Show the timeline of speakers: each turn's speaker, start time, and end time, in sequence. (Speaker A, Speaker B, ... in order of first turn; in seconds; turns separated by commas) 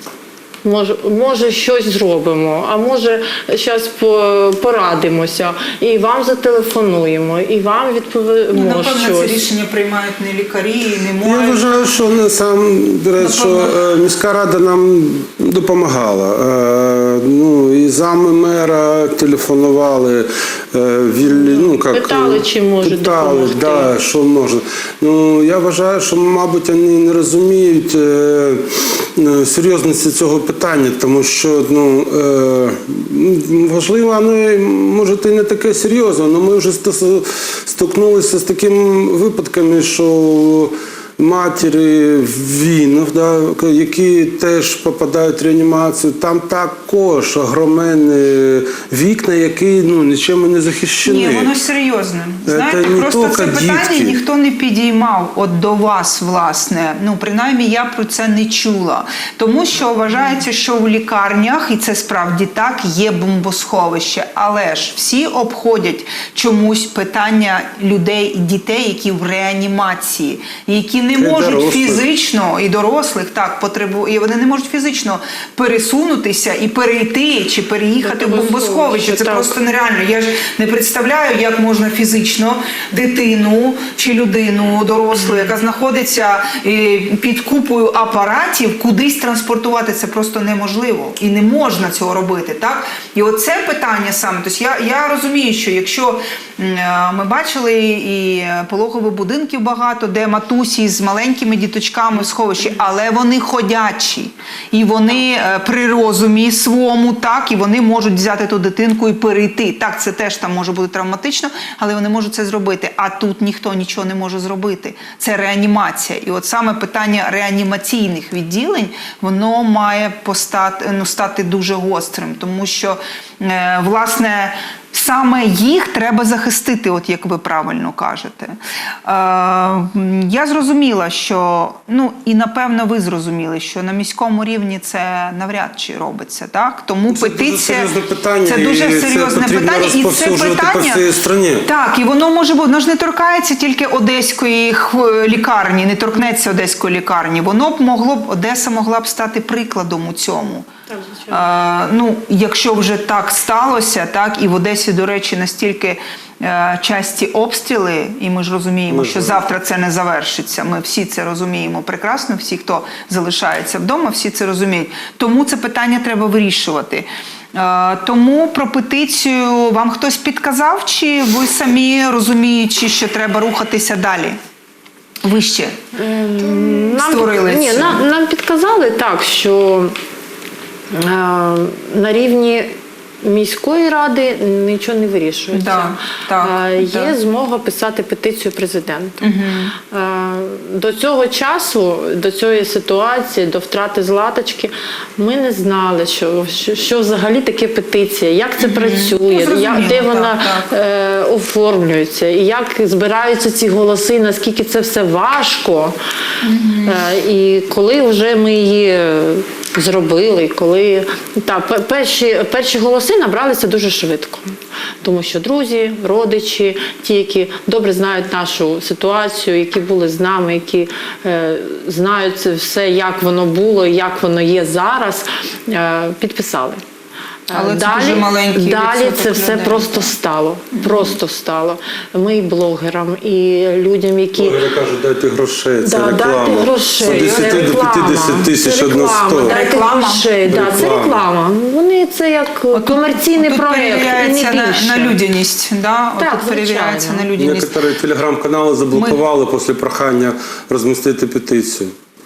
Speaker A: 0.6-9.5, Speaker B: 8.5-11.7, Speaker C: 11.2-51.5, Speaker B: 13.2-13.8, Speaker A: 21.4-23.9, Speaker B: 51.0-137.9, Speaker C: 52.5-54.2, Speaker C: 71.2-72.0, Speaker A: 78.0-79.6, Speaker C: 137.1-141.7, Speaker B: 138.4-141.1, Speaker B: 141.7-150.7, Speaker A: 150.9-151.4, Speaker B: 151.3-174.4, Speaker C: 158.9-159.4, Speaker B: 175.2-175.8, Speaker A: 175.9-180.0, Speaker B: 176.4-178.0, Speaker A: 180.9-206.0, Speaker B: 185.5-187.2, Speaker B: 189.2-189.7, Speaker B: 198.6-200.7, Speaker B: 206.4-207.1, Speaker A: 206.8-226.8, Speaker A: 227.5-234.6, Speaker B: 227.5-230.1, Speaker B: 230.7-231.2, Speaker C: 234.3-239.5, Speaker A: 235.8-245.2, Speaker B: 237.0-237.8, Speaker B: 239.4-240.3, Speaker C: 240.5-241.2, Speaker B: 242.7-247.8, Speaker A: 246.2-247.3, Speaker C: 247.3-251.9, Speaker B: 248.9-249.2